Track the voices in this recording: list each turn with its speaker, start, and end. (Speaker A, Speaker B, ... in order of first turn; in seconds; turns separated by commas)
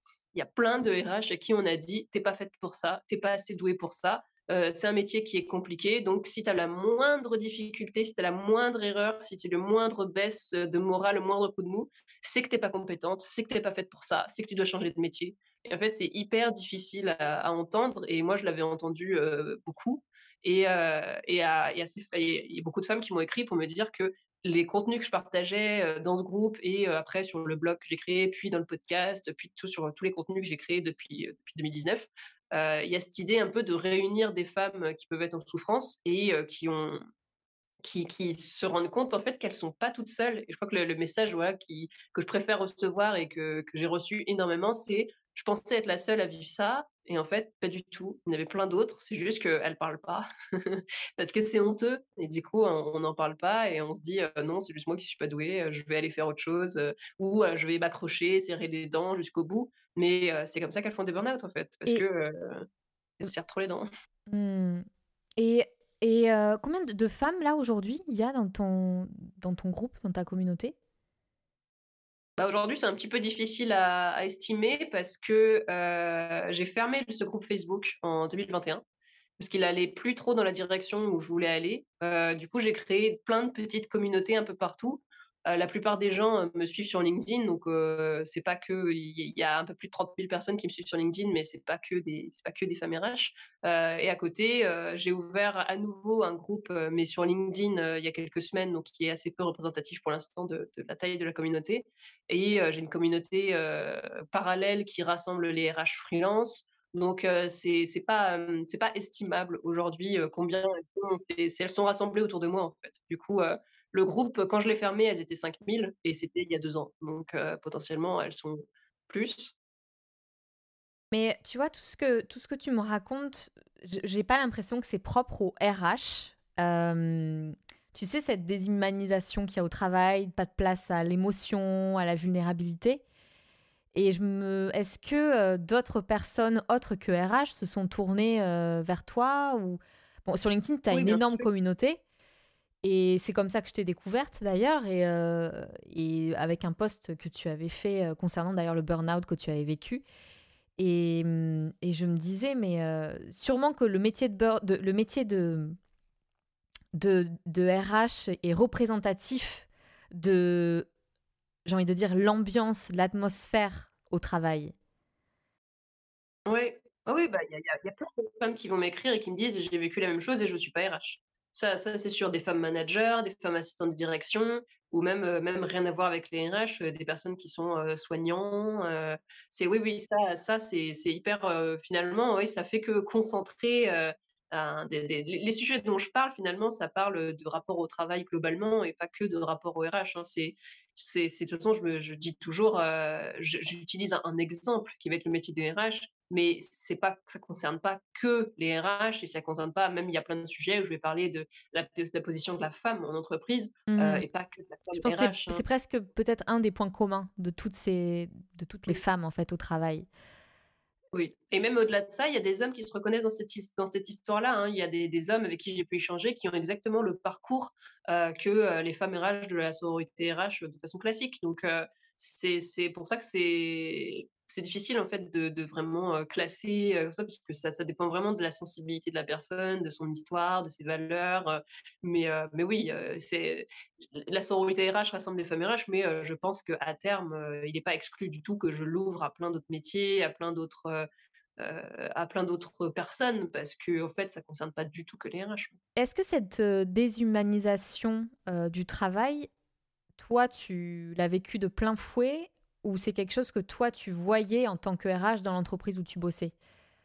Speaker A: 0.3-37.0, Speaker A: 37.8-62.7, Speaker A: 63.2-63.9, Speaker B: 64.3-64.9, Speaker B: 65.4-70.8, Speaker A: 72.4-78.8, Speaker A: 79.4-119.5, Speaker B: 121.1-133.0, Speaker B: 133.9-142.0, Speaker A: 140.9-141.5, Speaker B: 142.8-150.0, Speaker B: 150.8-155.8, Speaker B: 156.9-160.9, Speaker B: 161.7-164.7, Speaker A: 166.5-205.6, Speaker B: 203.9-204.2, Speaker B: 205.0-210.1, Speaker A: 211.1-245.8, Speaker B: 246.0-249.5, Speaker B: 250.2-256.5